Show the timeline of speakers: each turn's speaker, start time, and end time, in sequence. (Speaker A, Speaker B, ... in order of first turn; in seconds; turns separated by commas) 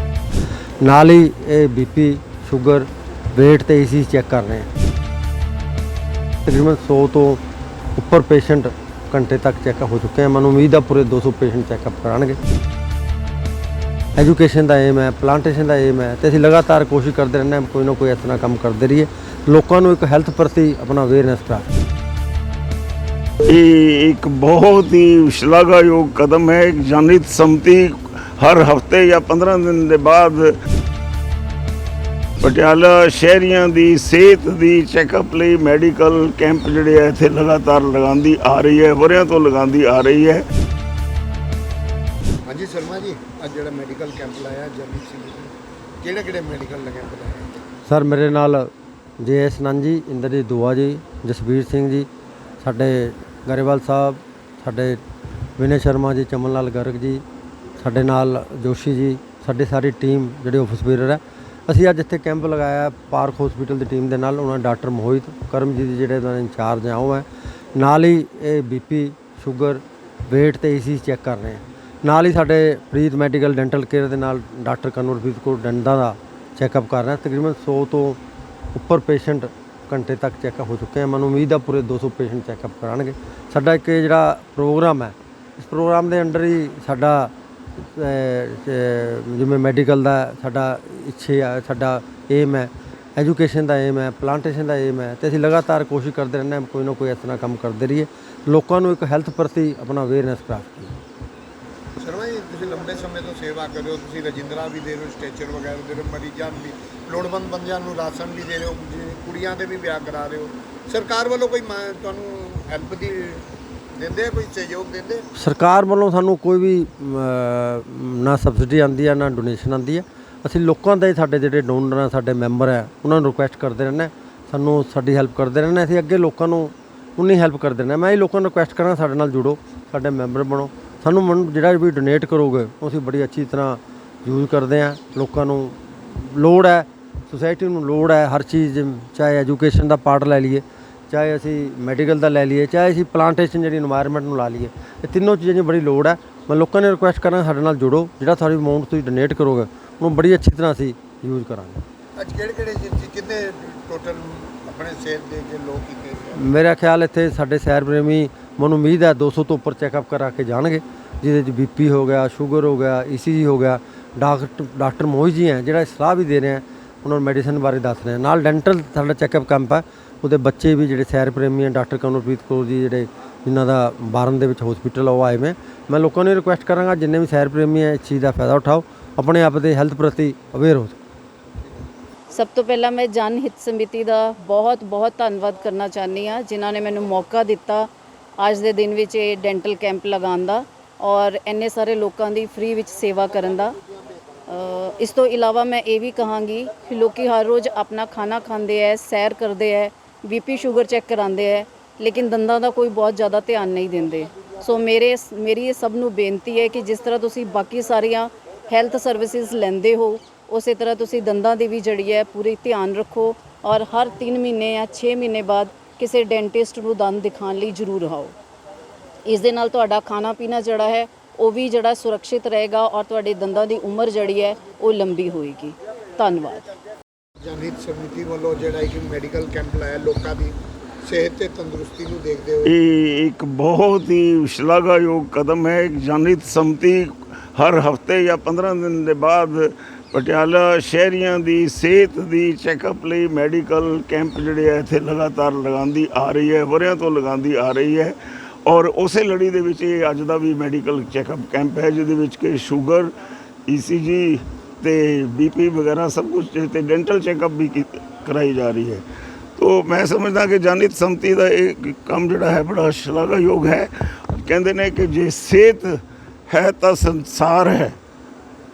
Speaker A: 0.8-4.7, Speaker A: 6.5-7.4, Speaker A: 7.9-12.4, Speaker A: 14.2-21.7, Speaker B: 23.4-30.5, Speaker B: 32.4-40.5, Speaker C: 42.5-47.5, Speaker A: 47.9-52.1, Speaker A: 52.6-55.0, Speaker A: 55.6-57.2, Speaker A: 57.8-78.2, Speaker A: 78.7-101.0, Speaker C: 102.0-115.2, Speaker A: 115.3-151.8, Speaker C: 152.2-156.5, Speaker A: 156.3-181.0, Speaker D: 182.3-193.8, Speaker D: 194.5-218.3, Speaker D: 219.3-226.6, Speaker C: 227.4-232.7, Speaker B: 232.6-253.1, Speaker B: 253.7-259.0, Speaker B: 259.6-268.0